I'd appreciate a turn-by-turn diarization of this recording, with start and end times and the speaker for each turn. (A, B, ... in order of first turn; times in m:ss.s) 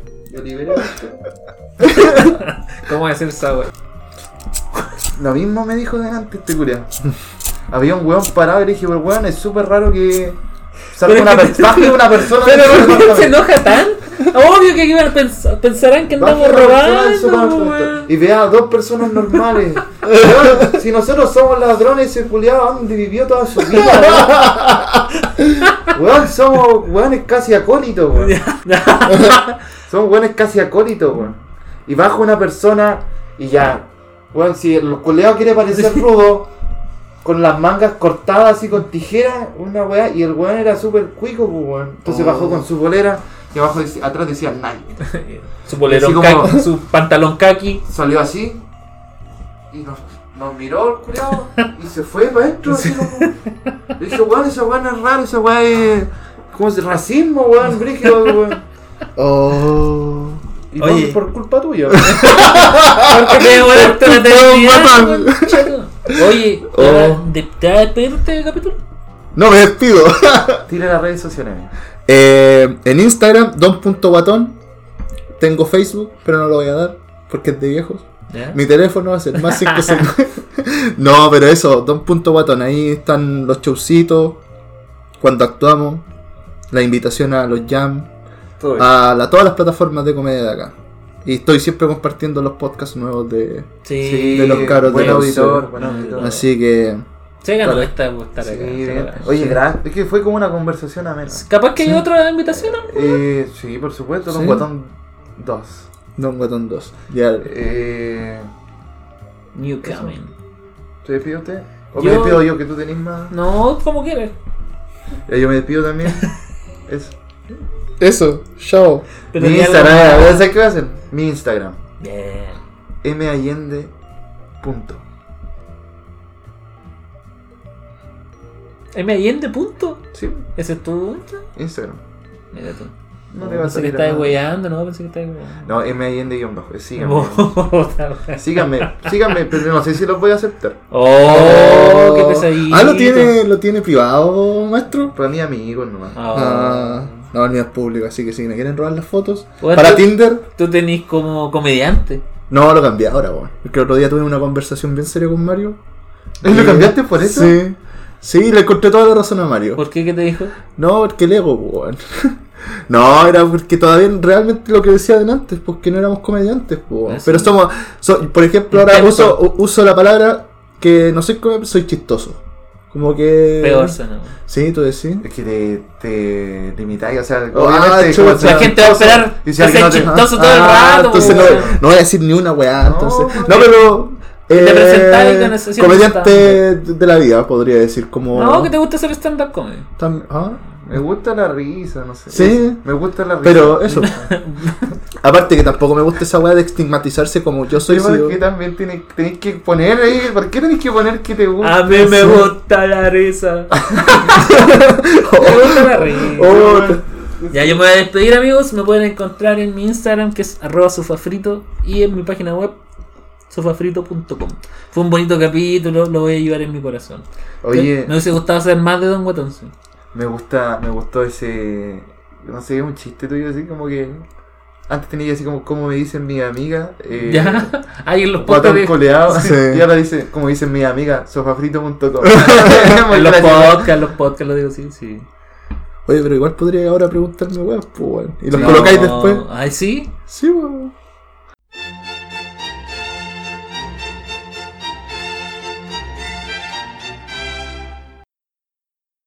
0:00.3-0:01.2 A
0:01.9-0:03.7 B
0:05.1-0:06.9 A
0:07.7-0:10.4 A
0:10.9-0:13.4 A
0:11.0-0:18.1 B
0:16.1-0:24.8 A
0:20.1-0:20.7 C
0:23.8-0:24.3 B
0:25.6-0:25.9 B
0:25.8-0:28.4 A
0:28.2-0:29.6 B
0:29.9-0:36.5 A
0:37.2-0:45.0 A
0:42.0-0:42.6 C
0:45.0-0:47.8 B
0:45.8-0:46.6 A
0:47.9-0:48.6 A
0:49.7-0:53.4 A
0:52.7-0:53.3 B
0:54.0-0:58.6 A
0:59.2-1:00.4 C
1:00.7-1:02.5 A
1:00.8-1:01.2 B
1:02.0-1:06.1 C
1:02.2-1:08.8 B
1:06.7-1:07.2 C
1:09.3-1:10.7 C
1:10.7-1:11.7 A
1:12.1-1:14.6 C
1:15.4-1:24.4 C
1:18.3-1:18.6 B
1:19.3-1:20.0 B
1:25.2-1:26.0 C
1:26.7-1:28.1 C
1:28.6-1:28.9 A
1:28.8-1:33.7 C
1:33.8-1:36.4 B
1:34.0-1:36.4 A
1:34.3-1:37.0 C
1:37.4-1:39.3 B
1:38.4-1:41.4 A
1:39.3-1:39.6 C
1:41.3-1:43.2 B
1:41.8-1:42.0 C
1:42.5-1:45.9 A
1:44.3-1:44.7 C
1:46.2-1:47.5 C
1:47.4-1:48.5 A
1:49.5-1:50.3 B
1:49.8-1:50.1 A
1:51.0-1:53.3 A
1:52.0-1:52.5 B
1:53.3-1:54.3 B
1:55.3-1:56.3 A
1:56.9-1:57.2 A
1:58.0-1:59.1 C
1:59.3-2:00.4 B
1:59.4-2:01.8 A
2:02.0-2:02.6 B
2:03.0-2:03.9 A
2:04.6-2:05.0 A
2:08.9-2:11.4 B
2:10.1-2:10.5 A
2:11.6-2:12.0 A
2:12.5-2:15.8 B
2:13.3-2:14.3 A
2:15.6-2:17.5 A
2:17.0-2:19.1 B
2:18.4-2:20.8 A
2:20.9-2:23.4 B
2:21.2-2:25.2 C
2:21.5-2:21.9 A
2:25.1-2:26.2 A
2:26.1-2:27.0 B
2:26.3-2:30.4 C
2:29.6-2:32.2 B
2:32.5-2:35.8 C
2:36.4-2:37.6 A
2:36.4-2:39.8 C
2:39.8-2:40.5 B
2:40.8-2:42.3 C
2:42.9-2:53.9 C
2:47.1-2:47.5 B
2:48.7-2:49.4 B
2:53.6-2:54.4 B
2:54.5-2:55.2 C
2:55.2-3:01.8 A
2:57.5-2:58.7 C
2:58.4-3:01.7 B
3:00.0-3:08.7 C
3:02.8-3:03.7 A
3:03.5-3:03.9 B
3:04.5-3:06.6 B
3:08.3-3:09.9 B
3:10.0-3:10.6 C
3:10.7-3:14.3 A
3:12.3-3:12.8 C
3:13.4-3:14.1 C
3:14.0-3:14.9 B
3:15.2-3:18.4 C
3:17.8-3:22.4 A
3:21.6-3:24.7 B
3:24.4-3:27.0 C
3:25.2-3:26.6 B
3:26.3-3:27.8 A
3:27.5-3:32.8 B
3:33.5-3:39.7 B
3:37.6-3:38.2 A
3:40.1-3:44.2 A
3:44.9-3:47.7 A
3:47.2-3:49.5 B
3:48.4-3:53.9 A
3:49.3-3:49.8 C
3:52.4-3:55.3 B
3:56.0-3:59.4 C
3:58.5-3:59.1 A
3:58.5-4:00.1 B
4:00.3-4:00.9 C